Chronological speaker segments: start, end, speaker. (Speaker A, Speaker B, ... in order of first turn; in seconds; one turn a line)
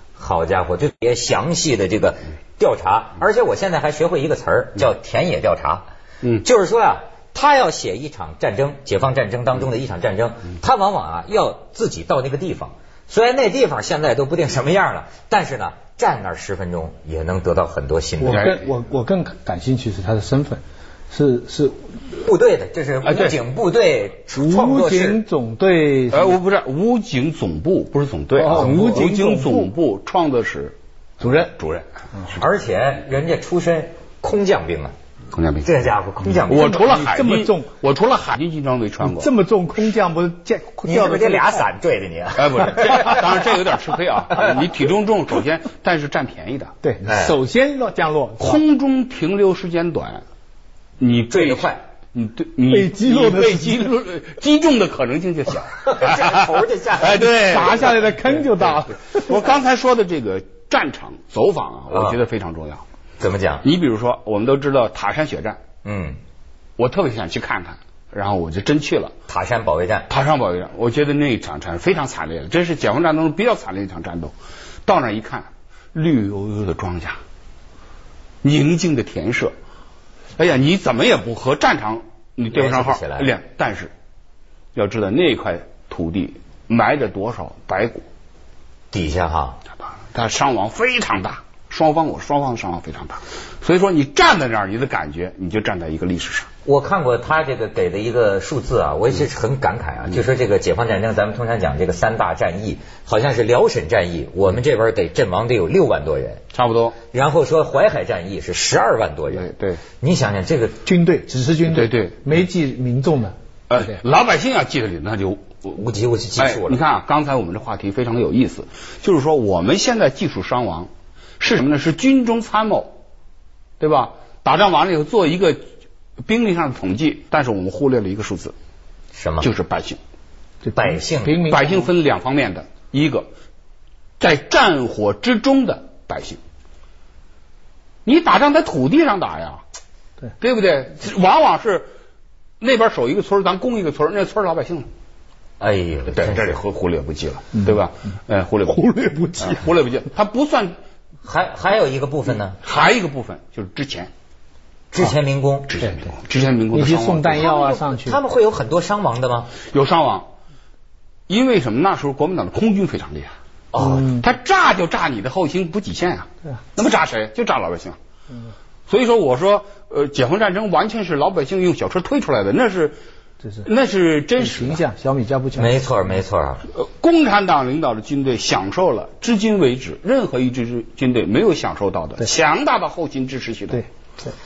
Speaker A: 0.2-5.8
Speaker A: 6.4-18.5
Speaker B: 18.2-21.9
Speaker A: 22.2-25.2
Speaker C: 23.0-23.3
Speaker B: 24.3-26.4
Speaker C: 26.1-31.9
Speaker B: 28.3-29.7
Speaker B: 31.2-31.5
Speaker A: 32.3-34.9
Speaker C: 35.3-35.8
Speaker A: 35.6-36.9
Speaker C: 36.4-39.3
Speaker B: 36.5-37.7
Speaker B: 39.0-41.7
Speaker A: 40.8-43.2
Speaker C: 42.4-46.7
Speaker B: 46.8-48.6
Speaker A: 47.0-47.4
Speaker C: 48.4-50.2
Speaker C: 51.0-62.8
Speaker A: 51.3-51.8
Speaker B: 52.7-53.9
Speaker A: 55.8-57.3
Speaker B: 57.1-59.4
Speaker A: 61.9-62.2
Speaker A: 63.2-63.6
Speaker C: 63.6-65.6
Speaker A: 65.8-66.2
Speaker C: 66.8-69.1
Speaker A: 69.3-70.1
Speaker C: 70.1-74.3
Speaker C: 74.8-77.2
Speaker C: 78.4-79.5
Speaker C: 80.4-83.9
Speaker A: 82.5-83.3
Speaker C: 84.7-88.0
Speaker A: 88.9-89.6
Speaker C: 90.1-96.5
Speaker A: 96.6-106.4
Speaker C: 106.5-107.0
Speaker A: 107.1-109.5
Speaker C: 109.3-109.8
Speaker A: 110.0-110.8
Speaker B: 110.8-114.0
Speaker C: 111.7-112.3
Speaker C: 113.7-115.7
Speaker A: 115.7-116.8
Speaker C: 116.4-122.9
Speaker C: 123.8-125.6
Speaker C: 126.2-128.5
Speaker A: 129.1-129.5
Speaker C: 129.4-130.0
Speaker B: 130.6-131.9
Speaker A: 130.7-131.4
Speaker C: 131.4-133.3
Speaker C: 134.2-136.4
Speaker C: 138.1-139.6
Speaker C: 140.4-141.9
Speaker C: 142.6-144.9
Speaker A: 145.6-146.6
Speaker C: 146.1-150.8
Speaker B: 148.7-149.7
Speaker A: 151.2-152.6
Speaker C: 152.6-154.1
Speaker A: 154.9-155.7
Speaker C: 155.7-157.5
Speaker B: 156.7-158.2
Speaker A: 157.3-159.5
Speaker C: 159.7-160.3
Speaker C: 161.3-163.3
Speaker A: 163.7-164.1
Speaker B: 163.8-164.2
Speaker C: 164.1-168.0
Speaker C: 168.9-173.0
Speaker C: 173.6-174.8
Speaker B: 174.4-175.8
Speaker A: 175.6-176.7
Speaker C: 176.7-183.8